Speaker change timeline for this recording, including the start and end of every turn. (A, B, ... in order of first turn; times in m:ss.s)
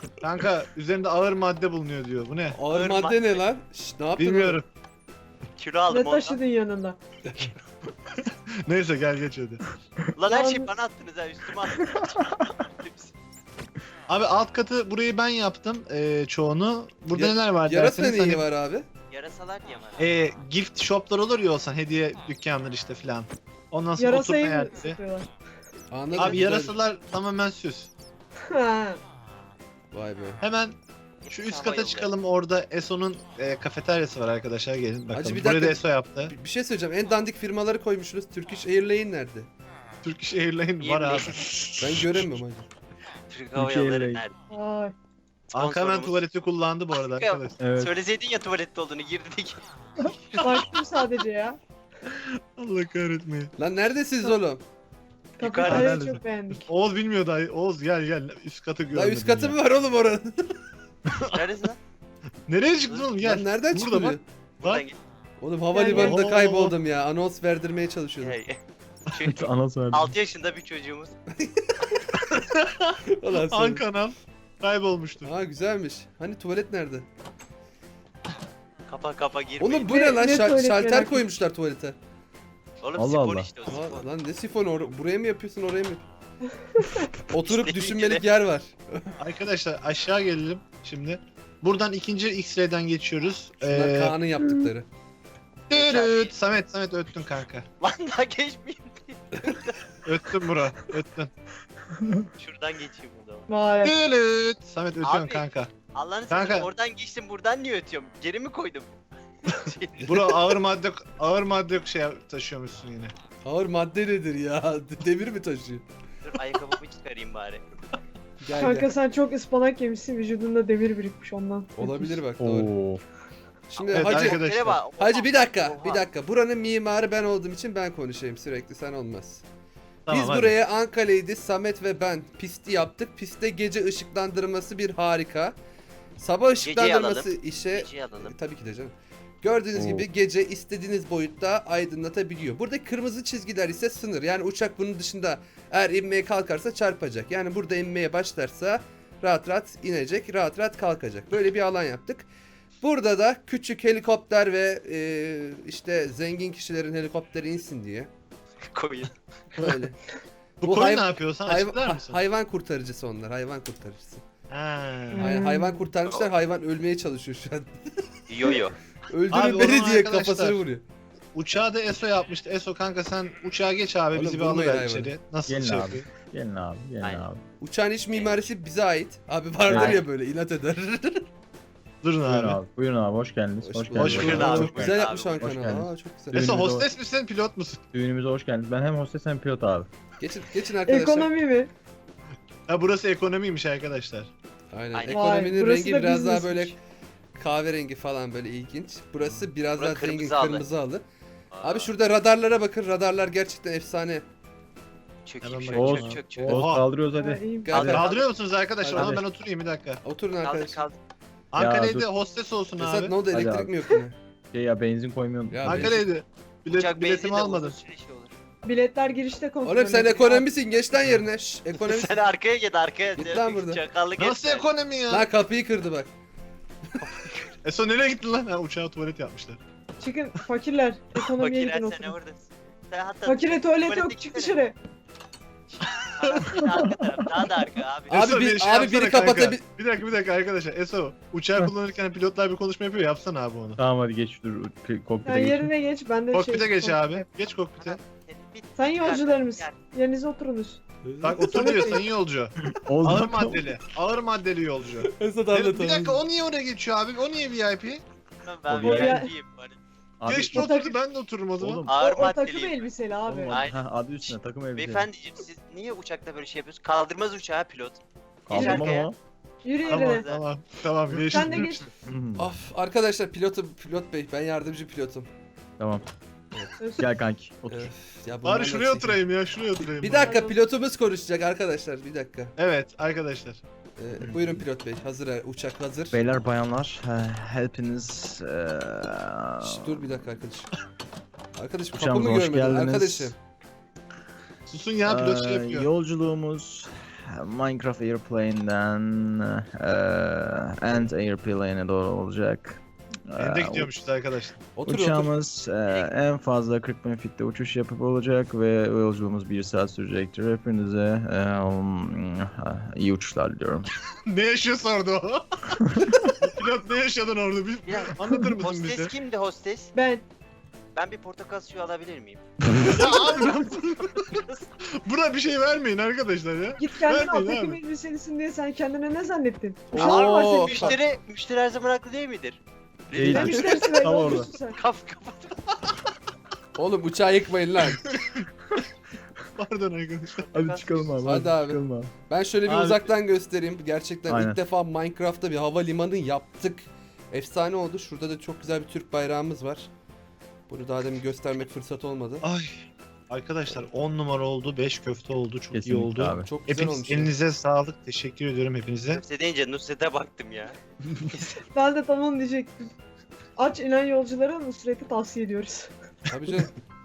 0:00.2-0:02.6 A
0:02.5-0:04.6 B
0:02.7-0:03.4 C
0:04.2-0:04.7 A
0:05.6-0:06.4 C
0:05.9-0:07.0 D
0:07.3-0:07.5 B
0:08.1-0:09.6 A
0:10.2-0:12.2 C
0:10.3-0:10.7 D
0:11.8-0:12.4 E
0:12.8-0:13.1 C
0:14.1-0:18.4 A
0:17.1-0:18.8 B
0:19.1-0:20.0 C
0:20.0-0:25.0 A
0:24.0-0:25.3 D
0:25.9-0:26.8 B
0:26.1-0:27.9 A
0:28.5-0:29.0 D
0:29.9-0:30.4 B
0:30.4-0:30.8 A
0:31.2-0:32.1 C
0:31.3-0:36.3 A
0:35.1-0:39.5 B
0:40.0-0:42.4 A
0:40.8-0:41.5 C
0:41.8-0:42.7 B
0:43.3-0:44.3 C
0:43.5-0:44.2 E
0:44.5-0:44.9 D
0:45.5-0:46.2 C
0:45.5-0:47.6 A
0:47.1-0:50.7 C
0:47.6-0:47.9 E
0:50.4-0:51.6 D
0:52.1-0:53.5 A
0:53.6-0:54.6 B
0:55.4-0:56.2 C
0:55.4-0:56.7 D
0:55.6-0:56.2 E
0:56.5-0:59.6 A
0:58.9-1:00.6 B
1:01.1-1:01.4 A
1:01.3-1:01.8 C
1:02.5-1:04.8 A
1:02.9-1:03.1 C
1:03.2-1:04.2 B
1:04.6-1:05.0 C
1:05.4-1:08.4 B
1:05.7-1:06.2 D
1:05.9-1:06.7 A
1:08.2-1:11.2 C
1:09.2-1:10.1 E
1:11.4-1:12.0 B
1:12.2-1:15.3 A
1:13.1-1:13.8 B
1:15.2-1:17.1 B
1:18.9-1:19.9 C
1:19.6-1:22.0 B
1:19.8-1:21.2 D
1:22.8-1:24.1 C
1:23.0-1:23.5 E
1:23.6-1:26.0 B
1:26.7-1:27.1 D
1:27.3-1:29.1 B
1:27.4-1:28.2 C
1:29.2-1:34.2 A
1:33.7-1:34.9 B
1:34.4-1:34.7 E
1:35.7-1:37.6 A
1:35.7-1:36.3 C
1:37.8-1:39.7 C
1:40.0-1:41.3 A
1:42.4-1:43.5 C
1:43.5-1:44.0 D
1:43.8-1:45.7 A
1:45.0-1:50.1 C
1:46.3-1:46.7 A
1:50.0-1:53.1 A
1:50.0-1:50.3 B
1:53.4-1:55.8 B
1:56.2-1:57.6 C
1:58.4-1:58.9 B
1:58.5-2:02.2 D
2:01.8-2:02.7 B
2:02.4-2:03.0 E
2:03.7-2:04.4 B
2:03.8-2:06.0 C
2:03.9-2:04.8 A
2:05.0-2:09.4 B
2:10.1-2:10.6 A
2:10.1-2:15.6 B
2:16.2-2:32.3 B
2:16.6-2:18.3 C
2:19.7-2:20.0 E
2:32.8-2:38.1 B
2:38.7-2:39.1 C
2:39.6-2:40.0 B
2:40.6-2:42.2 A
2:40.6-2:44.2 B
2:44.5-2:45.4 A
2:45.1-2:45.8 D
2:45.2-2:47.8 B
2:48.3-2:48.8 C
2:48.4-2:50.8 B
2:49.3-2:50.6 A
2:51.3-2:56.1 A
2:54.1-2:55.1 B
2:55.4-2:57.4 E
2:57.0-2:57.3 C
2:57.6-3:01.2 B
2:58.1-2:58.4 C
2:59.7-3:00.0 E
2:59.7-3:00.0 C
3:02.0-3:02.6 A
3:02.2-3:06.9 E
3:03.6-3:06.4 B
3:04.0-3:04.7 A
3:04.2-3:05.6 C
3:06.3-3:07.8 A
3:07.9-3:09.9 E
3:10.2-3:11.3 B
3:10.8-3:11.7 D
3:12.7-3:14.3 A
3:14.7-3:16.8 B
3:14.9-3:15.3 C
3:15.1-3:16.8 D
3:17.4-3:21.0 B
3:19.7-3:20.6 C
3:21.5-3:21.9 C
3:21.6-3:24.2 B
3:25.2-3:26.6 C
3:25.4-3:26.8 A
3:25.7-3:28.1 E
3:27.1-3:27.7 D
3:27.7-3:28.1 B
3:27.7-3:28.3 C
3:27.8-3:30.0 A
3:28.8-3:29.2 B
3:28.9-3:29.2 E
3:30.0-3:30.8 B
3:30.4-3:31.0 C
3:31.5-3:33.2 A
3:31.6-3:32.1 E
3:32.8-3:34.2 B
3:33.3-3:33.7 E
3:34.5-3:36.0 E
3:35.5-3:36.0 B
3:35.6-3:37.8 A
3:36.7-3:38.3 C
3:38.6-3:40.5 D
3:39.6-3:42.2 B
3:41.8-3:44.7 C
3:43.2-3:43.8 B
3:44.2-3:45.3 A
3:45.1-3:46.1 B
3:47.0-3:47.5 C
3:47.6-3:49.6 A
3:50.0-3:52.2 D
3:51.4-3:54.6 C
3:53.2-3:54.8 D
3:55.7-3:58.2 C
3:55.8-3:56.7 A
3:58.1-4:03.8 A
3:58.1-3:59.6 B
4:03.8-4:05.7 E
4:05.2-4:07.2 D
4:06.3-4:08.0 A
4:07.8-4:09.9 C
4:08.8-4:10.8 D
4:11.0-4:11.6 B
4:11.2-4:18.0 A
4:11.4-4:12.0 D
4:12.8-4:13.7 E
4:15.0-4:16.2 B
4:18.4-4:19.8 C
4:18.7-4:19.2 E
4:18.8-4:19.3 D
4:20.2-4:20.7 E
4:20.2-4:21.8 A
4:20.5-4:21.0 D
4:21.6-4:22.3 E
4:21.8-4:22.8 C
4:22.0-4:23.6 D
4:23.3-4:25.1 E
4:23.5-4:28.0 C
4:28.4-4:29.2 E
4:28.5-4:29.1 C
4:28.6-4:28.9 D
4:29.6-4:30.3 D
4:29.8-4:30.4 C
4:29.9-4:31.8 A
4:31.3-4:31.8 D
4:31.5-4:32.5 E
4:32.4-4:35.3 B
4:35.8-4:36.0 E
4:36.8-4:37.0 D
4:37.0-4:37.9 E
4:37.7-4:39.2 B
4:38.4-4:40.4 A
4:40.0-4:42.5 B
4:40.2-4:40.6 D
4:42.6-4:43.6 A
4:44.0-4:46.2 B
4:44.2-4:44.6 E
4:46.1-4:50.0 E
4:49.6-4:50.7 B
4:51.6-4:53.4 B
4:51.9-4:53.3 E
4:54.7-4:55.9 A
4:55.0-5:03.9 E
5:03.4-5:04.6 A
5:04.8-5:05.3 B
5:04.8-5:13.9 E
5:05.8-5:06.1 C
5:14.3-5:19.1 A
5:17.8-5:19.9 C
5:19.9-5:20.2 D
5:20.9-5:22.4 C
5:22.8-5:24.4 A
5:23.4-5:24.6 C
5:24.9-5:27.8 A
5:26.8-5:31.0 D
5:29.9-5:31.0 B
5:29.9-5:35.8 C
5:33.1-5:34.5 E
5:33.3-5:34.8 D
5:36.8-5:38.1 B
5:39.6-5:40.5 A
5:40.5-5:41.1 C
5:40.5-5:42.1 E
5:41.2-5:49.9 B
5:42.6-5:43.0 A
5:44.3-5:44.6 E
5:50.7-5:52.4 B
5:52.4-5:59.2 A
5:55.7-5:56.5 E
5:56.4-5:57.3 B
5:59.1-6:00.8 C
6:01.7-6:02.9 D
6:03.6-6:05.9 D
6:06.3-6:06.8 B